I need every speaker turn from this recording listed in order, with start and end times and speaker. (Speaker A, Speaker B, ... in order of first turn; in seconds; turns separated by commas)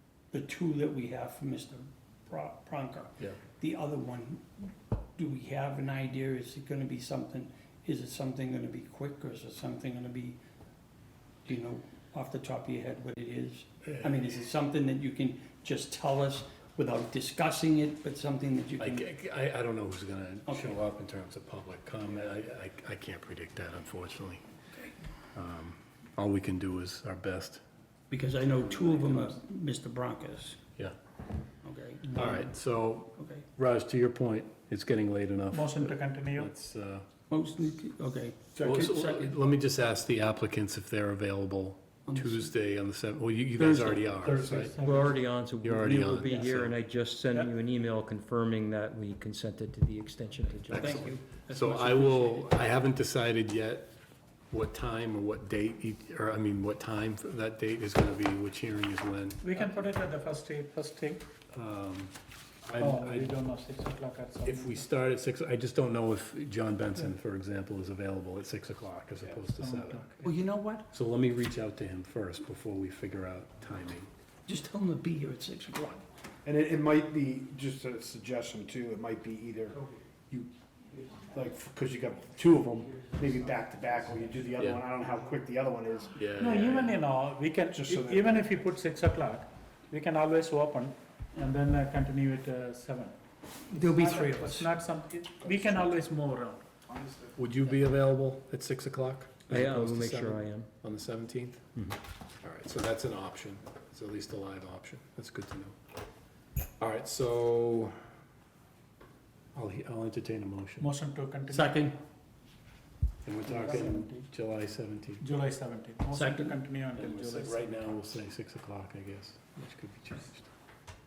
Speaker A: 0.3-10.4, Speaker A: 11.4-19.1, Speaker B: 18.8-24.4, Speaker A: 20.5-20.8, Speaker B: 25.3-27.6, Speaker A: 28.1-30.6, Speaker A: 31.6-33.4, Speaker B: 32.1-37.0, Speaker C: 35.5-36.5, Speaker A: 37.3-39.4, Speaker D: 38.5-39.0, Speaker B: 38.6-44.8, Speaker A: 42.1-42.5, Speaker D: 43.5-44.8, Speaker C: 44.8-45.2, Speaker E: 44.8-51.1, Speaker B: 45.6-46.8, Speaker A: 50.6-52.5, Speaker B: 50.7-53.9, Speaker B: 54.5-59.6, Speaker C: 59.4-61.2, Speaker B: 61.5-62.1, Speaker B: 62.6-63.4, Speaker C: 62.8-64.8, Speaker B: 64.4-70.3, Speaker C: 69.5-70.1, Speaker A: 70.2-70.9, Speaker B: 70.9-74.1, Speaker A: 74.5-76.0, Speaker D: 76.4-79.8, Speaker A: 80.3-81.2, Speaker D: 81.3-86.2, Speaker A: 82.8-84.6, Speaker B: 86.2-87.0, Speaker C: 86.3-93.1, Speaker D: 87.7-88.6, Speaker A: 93.7-94.7, Speaker C: 93.7-96.6, Speaker D: 95.4-96.0, Speaker D: 96.9-97.3, Speaker B: 97.3-101.7, Speaker E: 99.5-100.7, Speaker B: 102.4-105.7, Speaker B: 106.8-108.0, Speaker B: 109.5-110.9, Speaker C: 110.8-111.8, Speaker A: 111.5-112.0, Speaker B: 113.2-115.2, Speaker C: 113.5-114.2, Speaker C: 115.2-117.6, Speaker A: 116.1-116.6, Speaker B: 116.9-120.5